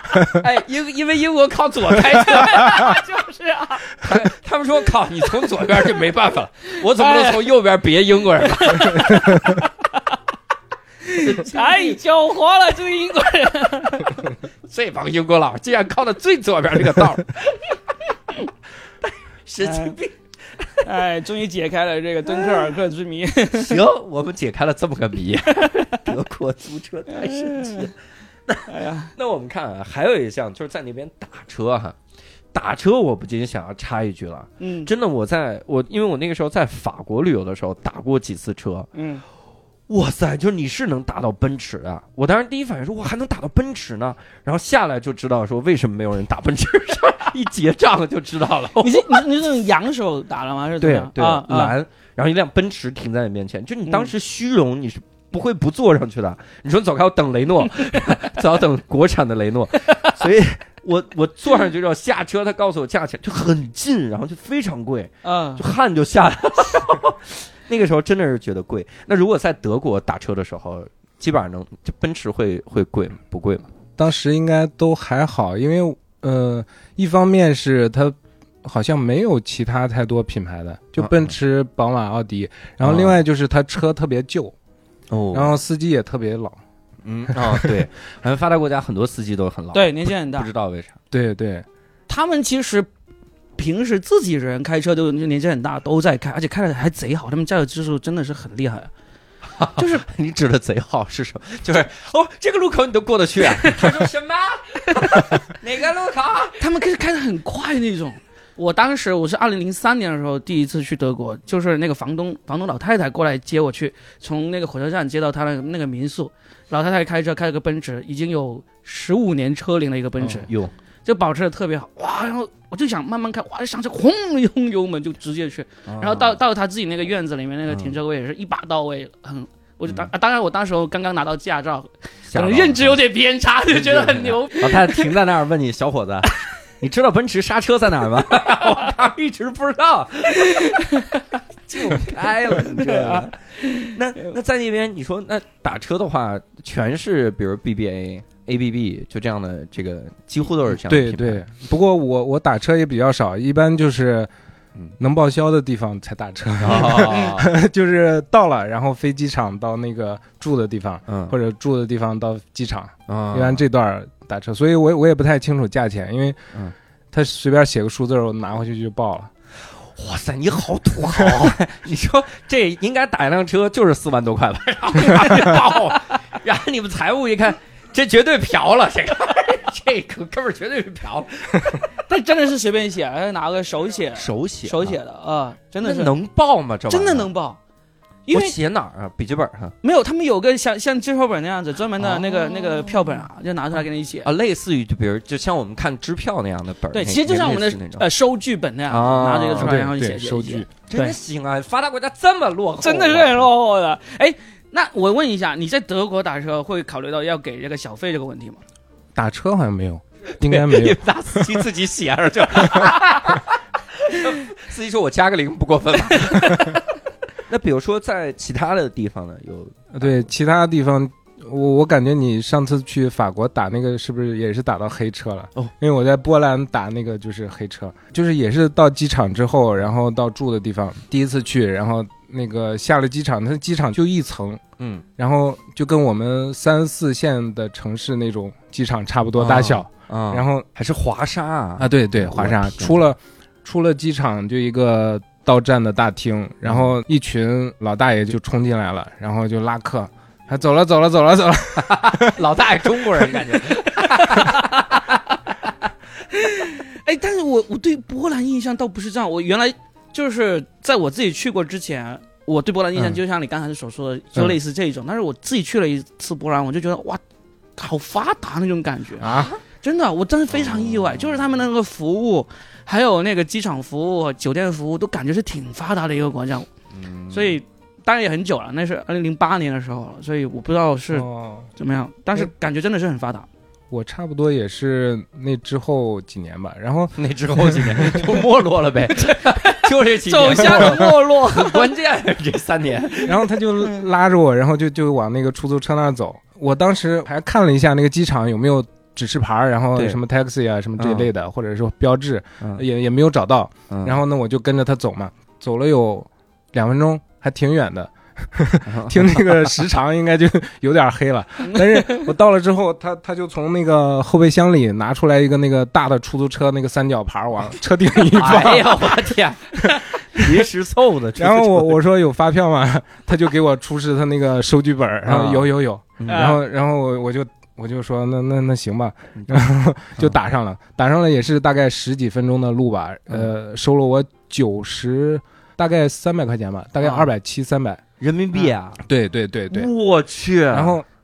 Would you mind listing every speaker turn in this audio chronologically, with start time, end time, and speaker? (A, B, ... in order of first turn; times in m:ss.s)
0:00.2-0:03.0 A
0:02.1-0:04.0 B
0:04.0-0:09.2 A
0:07.0-0:07.4 B
0:08.5-0:09.7 B
0:11.0-0:14.3 B
0:11.2-0:12.0 A
0:14.7-0:17.6 A
0:19.4-0:20.8 A
0:19.6-0:19.9 B
0:20.8-0:23.8 B
0:22.3-0:22.7 A
0:23.6-0:28.0 A
0:25.5-0:26.0 B
0:27.1-0:27.9 B
0:28.5-0:32.0 A
0:28.7-0:29.1 B
0:32.5-0:38.9 A
0:34.6-0:34.9 B
0:38.9-0:39.2 B
0:39.9-0:49.3 A
0:48.8-0:51.8 B
0:50.8-1:13.7 A
0:59.9-1:00.1 B
1:05.2-1:05.6 B
1:14.0-1:24.5 C
1:21.0-1:21.3 A
1:22.8-1:23.2 A
1:25.1-1:25.5 A
1:25.3-1:26.6 C
1:27.0-1:31.0 A
1:27.3-1:27.8 C
1:29.7-1:30.5 B
1:31.1-1:31.6 C
1:32.1-1:32.9 B
1:33.6-1:38.9 B
1:39.6-1:46.6 A
1:39.8-1:40.0 B
1:43.6-1:43.9 B
1:44.9-1:45.3 B
1:46.6-2:00.5 B
2:00.2-2:00.7 A
2:01.0-2:15.2 B
2:05.9-2:06.4 A
2:07.7-2:08.0 A
2:12.3-2:13.0 A
2:13.7-2:20.7 A
2:20.4-2:21.2 B
2:21.7-2:31.4 A
2:21.8-2:24.3 B
2:30.7-2:34.3 C
2:35.0-2:46.4 C
2:36.6-2:37.5 A
2:41.1-2:41.3 A
2:43.1-2:43.6 A
2:47.1-2:49.3 C
2:49.9-3:01.8 A
2:51.2-2:51.5 C
3:02.0-3:06.1 B
3:04.1-3:05.0 A
3:05.8-3:07.3 A
3:06.9-3:07.6 B
3:08.3-3:08.5 B
3:08.3-3:09.8 A
3:09.8-3:14.3 B
3:12.0-3:13.0 A
3:14.2-3:18.1 A
3:16.9-3:21.1 B
3:18.9-3:19.9 A
3:19.6-3:20.7 C
3:20.9-3:23.5 A
3:22.8-3:28.6 B
3:29.1-3:31.4 C
3:30.4-3:36.8 A
3:36.1-3:36.8 B
3:37.5-3:40.2 A
3:39.9-3:54.6 C
3:54.8-3:55.0 A
3:55.2-4:00.7 C
3:59.4-4:03.0 A
4:01.8-4:12.4 C
4:06.6-4:06.9 A
4:11.8-4:15.4 A
4:13.8-4:14.8 B
4:16.3-4:27.2 B
4:27.8-4:29.3 B
4:29.2-4:29.6 A
4:29.2-4:29.5 C
4:29.8-4:36.7 B
4:30.7-4:31.1 A
4:36.9-4:37.5 A
4:37.3-4:43.5 B
4:41.1-4:41.7 C
4:43.9-4:48.2 C
4:47.2-4:53.4 A
4:49.2-4:51.9 B
4:50.6-4:51.1 C
4:53.2-5:20.7 C
5:01.0-5:01.3 A
5:03.9-5:04.2 A
5:08.8-5:09.7 A
5:11.6-5:12.2 B
5:18.2-5:22.0 A
5:21.4-5:38.0 C
5:25.2-5:26.6 A
5:26.3-5:26.6 B
5:29.4-5:29.6 A
5:37.0-5:37.3 B
5:38.2-5:39.0 A
5:39.0-5:39.9 C
5:39.7-5:41.0 A
5:40.7-5:41.0 C